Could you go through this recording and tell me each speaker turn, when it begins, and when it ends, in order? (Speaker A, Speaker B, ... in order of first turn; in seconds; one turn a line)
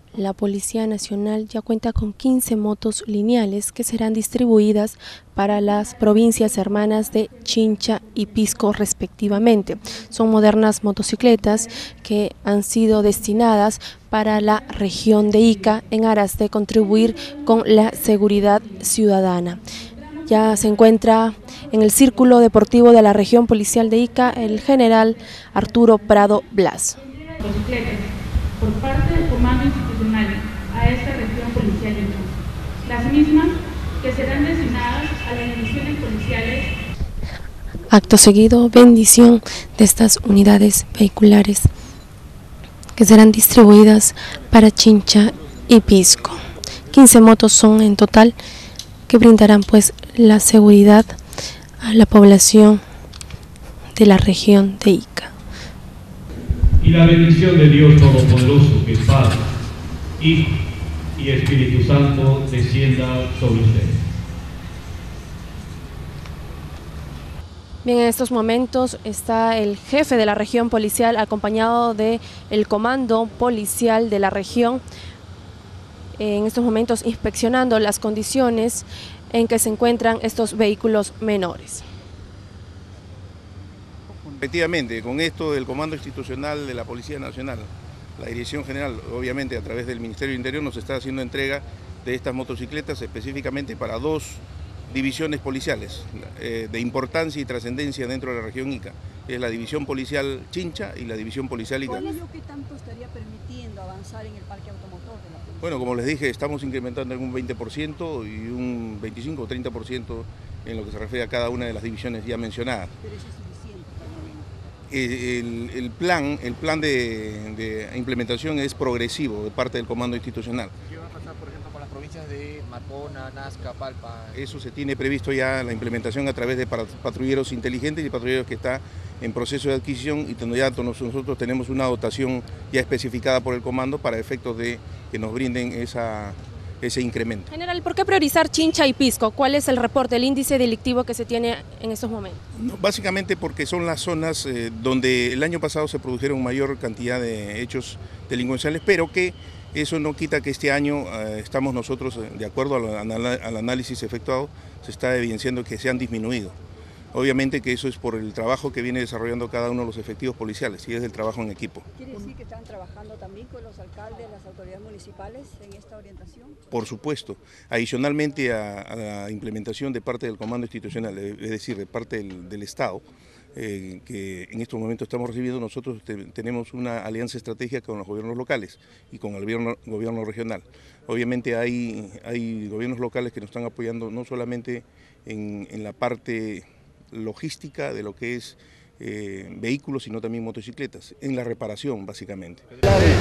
Speaker A: 0.1-19.6
Speaker A: 20.2-27.0
Speaker B: 27.4-28.1
Speaker B: 28.6-32.3
Speaker B: 32.8-36.7
Speaker A: 37.9-41.7
Speaker A: 43.0-48.4
Speaker A: 49.1-51.2
Speaker A: 51.8-52.8
Speaker A: 54.0-55.3
Speaker C: 56.8-59.4
Speaker C: 60.2-60.5
Speaker C: 61.2-64.0
Speaker A: 67.8-74.8
Speaker A: 76.2-81.8
Speaker D: 84.4-102.1
Speaker E: 101.9-105.9
Speaker D: 105.6-112.9
Speaker E: 113.0-114.5
Speaker D: 114.9-120.7
Speaker F: 120.9-124.4
Speaker D: 124.3-137.5
Speaker A: 137.5-142.4
Speaker D: 142.6-156.6
Speaker D: 157.1-161.8
Speaker E: 162.0-166.6
Speaker D: 166.7-173.0
Speaker D: 173.6-192.7